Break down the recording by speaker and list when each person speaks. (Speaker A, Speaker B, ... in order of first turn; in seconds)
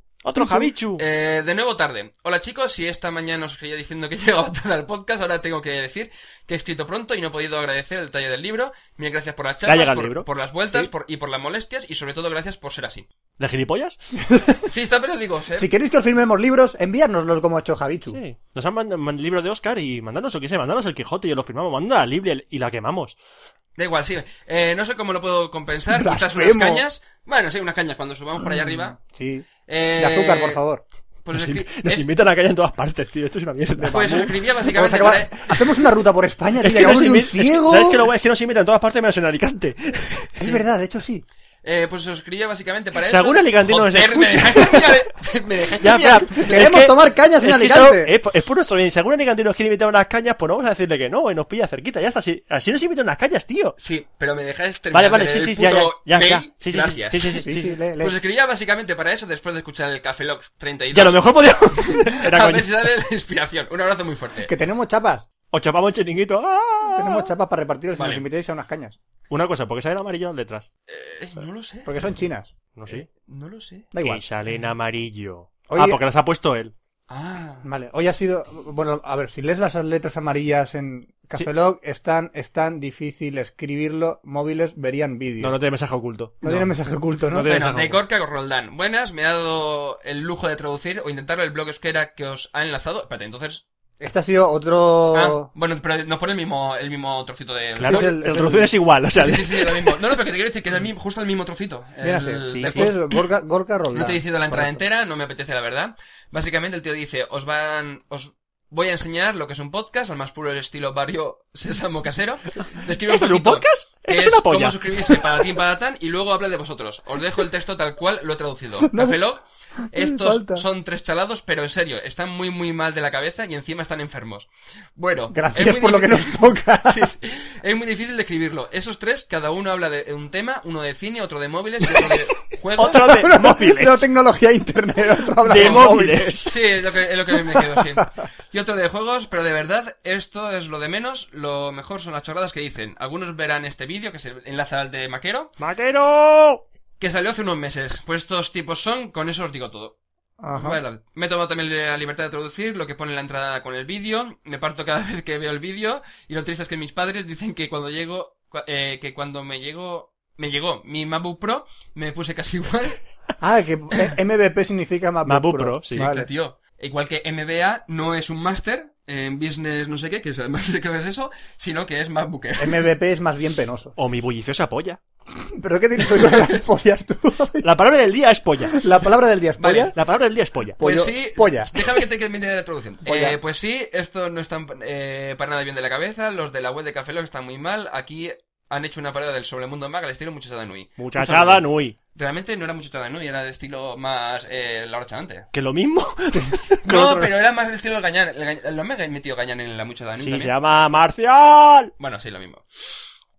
Speaker A: 0.2-1.0, 9.7-10.3, 13.4-14.0, 18.1-23.2, 31.3-34.4, 36.6-40.4, 43.0-45.1, 45.8-53.8, 54.9-57.7, 60.9-62.7, 65.5-67.3, 69.3-70.7, 72.8-73.1, 74.0-76.7, 85.4-86.7, 87.3-88.0, 97.8-100.0, 102.5-103.0, 113.1-115.5, 132.8-134.1, 135.4-136.6, 145.6-146.6, 165.2-166.1, 174.0-175.0, 177.6-178.8, 179.9-180.8, 191.0-192.0, 195.5-197.3, 200.2-201.9
Speaker B: 0.4-0.7, 15.6-18.2, 25.9-26.9, 28.4-30.8, 33.8-38.0, 40.4-41.2, 46.5-48.1, 57.4-58.2, 64.5-65.3, 66.9-69.0, 71.8-72.5, 73.9-74.2, 75.7-76.0, 77.6-85.6, 86.4-87.5, 94.0-95.5, 97.8-98.7, 102.0-104.8, 118.9-119.2, 119.9-120.6, 125.3-127.1, 132.9-136.4, 150.4-150.8, 163.4-166.3, 172.6-174.0, 175.5-177.7, 178.7-179.9, 180.8-181.8, 183.1-183.4
Speaker C: 1.0-13.1, 14.7-15.7, 23.8-29.0, 29.7-30.6, 31.2-32.1, 33.9-35.6, 40.4-40.6, 41.6-46.7, 53.8-57.5, 58.0-64.5, 68.0-68.2, 70.9-71.9, 72.9-73.9, 77.1-77.7, 87.5-93.6, 95.1-98.2, 99.1-103.0, 103.9-133.2, 135.5-135.9, 136.4-145.5, 147.0-149.9, 150.5-163.0, 165.9-172.9, 179.6-179.9, 180.8-195.5, 196.8-200.5, 202.0-202.9